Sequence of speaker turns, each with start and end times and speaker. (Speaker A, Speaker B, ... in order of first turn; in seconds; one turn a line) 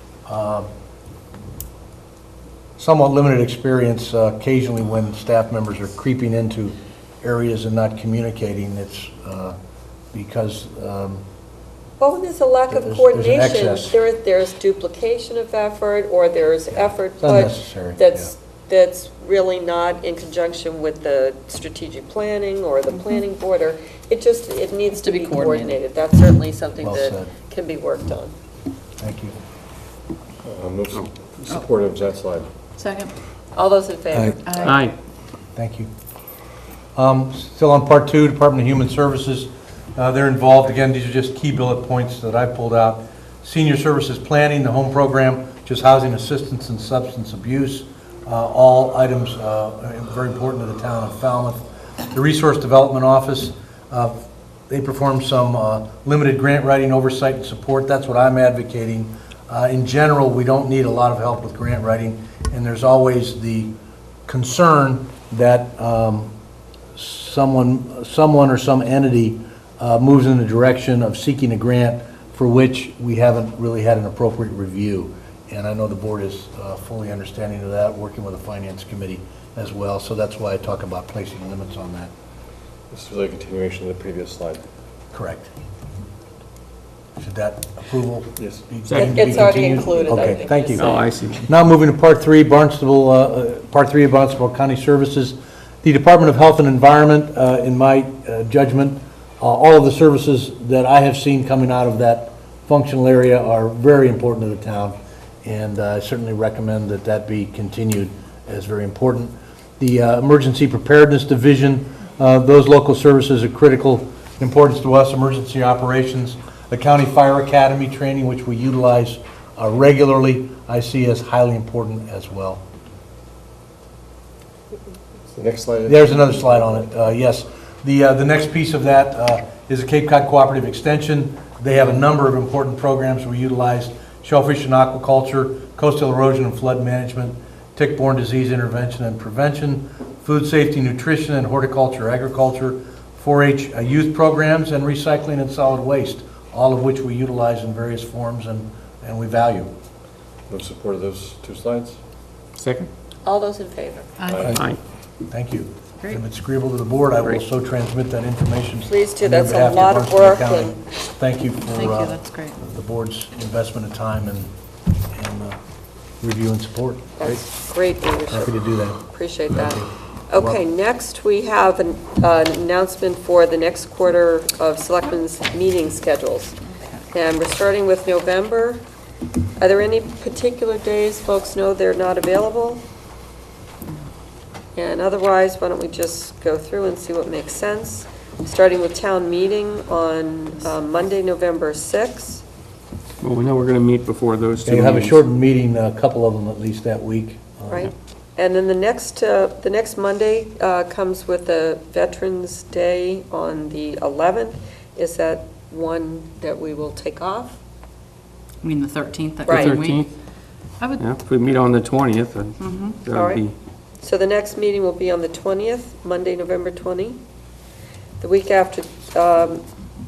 Speaker A: 0.3-0.7
Speaker A: 2.8-9.6
Speaker A: 10.1-11.2
Speaker B: 12.0-28.3
Speaker A: 12.7-14.0
Speaker A: 17.2-18.3
Speaker C: 24.9-25.8
Speaker A: 26.8-27.3
Speaker A: 29.0-29.4
Speaker D: 30.4-32.5
Speaker C: 32.8-33.1
Speaker B: 33.5-34.8
Speaker C: 34.4-34.9
Speaker E: 34.6-34.9
Speaker A: 35.5-35.9
Speaker A: 37.0-63.7
Speaker A: 64.3-66.3
Speaker A: 67.0-82.1
Speaker D: 82.9-84.6
Speaker A: 85.1-85.5
Speaker A: 87.2-122.6
Speaker E: 88.9-89.3
Speaker B: 89.0-91.0
Speaker E: 90.8-91.5
Speaker D: 125.3-126.8
Speaker A: 125.9-149.7
Speaker D: 150.5-152.0
Speaker E: 152.6-152.9
Speaker B: 153.2-154.2
Speaker C: 154.2-154.5
Speaker D: 154.3-154.6
Speaker E: 154.4-154.8
Speaker A: 155.3-164.5
Speaker B: 158.8-160.8
Speaker C: 161.7-162.6
Speaker A: 165.1-165.6
Speaker A: 166.2-167.4
Speaker B: 167.2-176.5
Speaker A: 168.3-170.6
Speaker B: 177.1-178.8
Speaker B: 179.6-182.8
Speaker B: 184.8-192.4
Speaker E: 193.2-195.2
Speaker A: 194.6-197.9
Speaker B: 197.7-207.6
Speaker C: 208.6-210.1
Speaker B: 209.4-209.8
Speaker E: 209.5-210.1
Speaker C: 210.8-211.1
Speaker E: 211.0-213.5
Speaker C: 212.6-213.0
Speaker B: 213.1-213.4
Speaker B: 214.0-217.2
Speaker B: 218.2-219.6